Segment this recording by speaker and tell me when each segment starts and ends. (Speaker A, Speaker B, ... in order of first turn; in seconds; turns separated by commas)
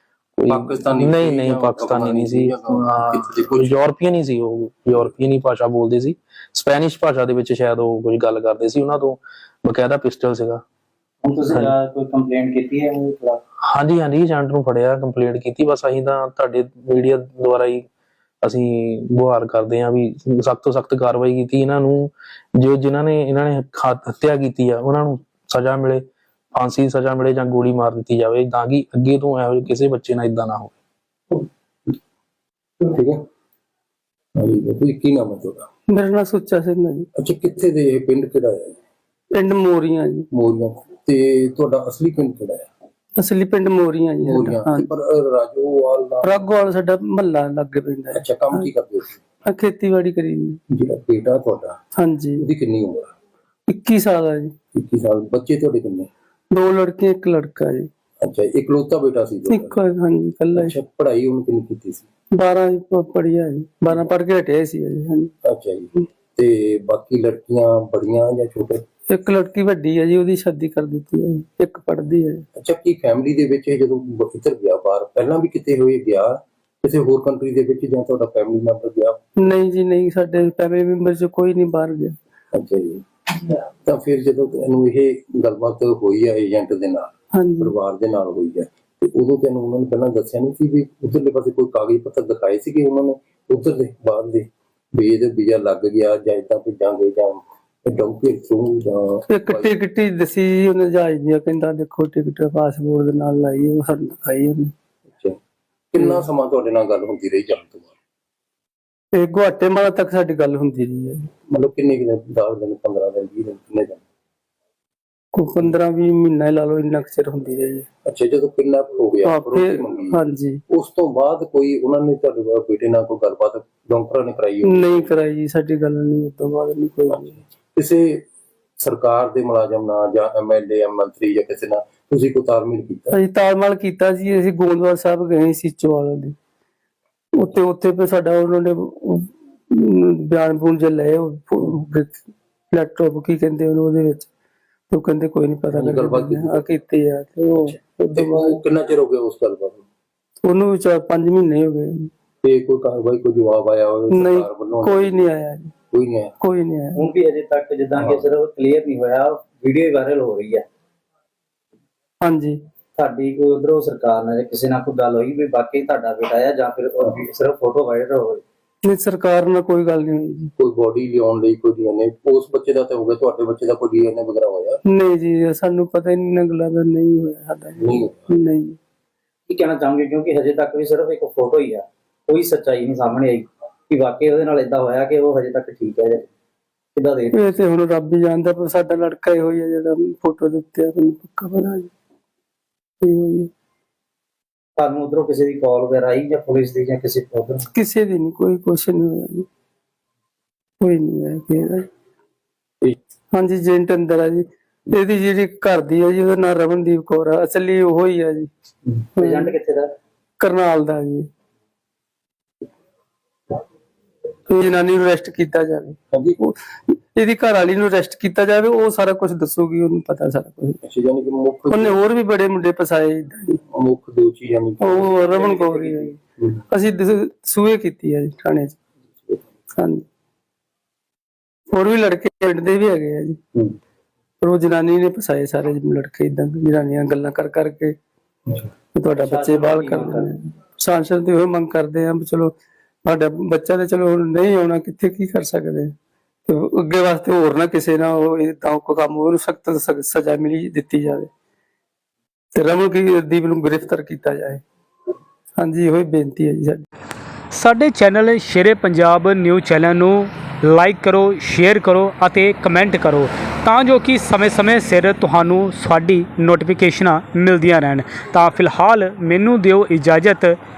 Speaker A: 0.4-10.6, Speaker B: 0.5-3.8, Speaker C: 11.2-13.4, Speaker A: 13.6-17.9, Speaker A: 18.4-26.0, Speaker A: 26.5-30.8, Speaker B: 32.8-33.2, Speaker B: 34.4-35.7, Speaker D: 35.9-37.1, Speaker B: 37.2-38.8, Speaker D: 39.3-40.3, Speaker B: 40.3-42.7, Speaker D: 43.2-44.9, Speaker B: 44.2-46.4, Speaker D: 46.2-48.7, Speaker B: 48.1-49.2, Speaker D: 49.5-50.6, Speaker B: 50.7-51.8, Speaker D: 52.0-52.5, Speaker B: 52.4-53.1, Speaker D: 53.7-54.5, Speaker B: 54.7-56.1, Speaker D: 56.5-57.9, Speaker B: 58.2-59.8, Speaker D: 59.5-60.7, Speaker B: 60.6-62.1, Speaker D: 62.3-65.3, Speaker B: 65.5-68.8, Speaker D: 69.1-72.5, Speaker B: 72.6-79.5, Speaker D: 79.4-82.2, Speaker B: 82.5-99.7, Speaker D: 87.3-87.7, Speaker D: 99.3-104.7, Speaker B: 105.1-105.4, Speaker B: 105.9-107.9, Speaker D: 109.1-111.3, Speaker B: 111.5-114.0, Speaker D: 115.3-117.9, Speaker B: 118.0-120.2, Speaker D: 119.2-120.6, Speaker B: 120.7-125.1, Speaker D: 124.6-127.4, Speaker B: 127.8-128.2, Speaker B: 128.8-133.1, Speaker D: 133.1-136.3, Speaker D: 137.3-144.3, Speaker D: 144.9-148.6, Speaker B: 145.7-146.6, Speaker B: 147.6-149.9, Speaker D: 150.4-152.1, Speaker B: 152.4-155.2, Speaker D: 154.1-155.7, Speaker B: 155.9-156.3, Speaker D: 156.4-157.0, Speaker C: 157.0-160.6, Speaker D: 162.2-162.6, Speaker C: 163.0-168.4, Speaker D: 168.8-170.5, Speaker B: 170.6-174.8, Speaker D: 174.9-178.8, Speaker B: 177.8-178.2, Speaker C: 179.5-186.3, Speaker C: 186.9-187.4, Speaker D: 187.3-191.9, Speaker D: 193.0-193.5, Speaker C: 194.8-197.7, Speaker D: 197.7-199.5, Speaker D: 200.8-201.9, Speaker D: 203.3-208.5, Speaker C: 208.9-209.9, Speaker D: 209.2-209.5, Speaker D: 210.4-211.3, Speaker D: 214.5-220.8, Speaker B: 216.1-216.4, Speaker B: 220.8-222.0, Speaker D: 221.7-223.6, Speaker B: 223.7-226.6, Speaker D: 224.8-226.2, Speaker D: 226.7-228.8, Speaker D: 229.8-230.1, Speaker D: 231.7-233.4, Speaker D: 234.4-237.9, Speaker D: 238.9-242.5, Speaker C: 239.2-240.3, Speaker D: 243.1-245.9, Speaker D: 246.5-251.3, Speaker D: 252.6-254.6, Speaker D: 255.6-256.8, Speaker E: 257.5-270.6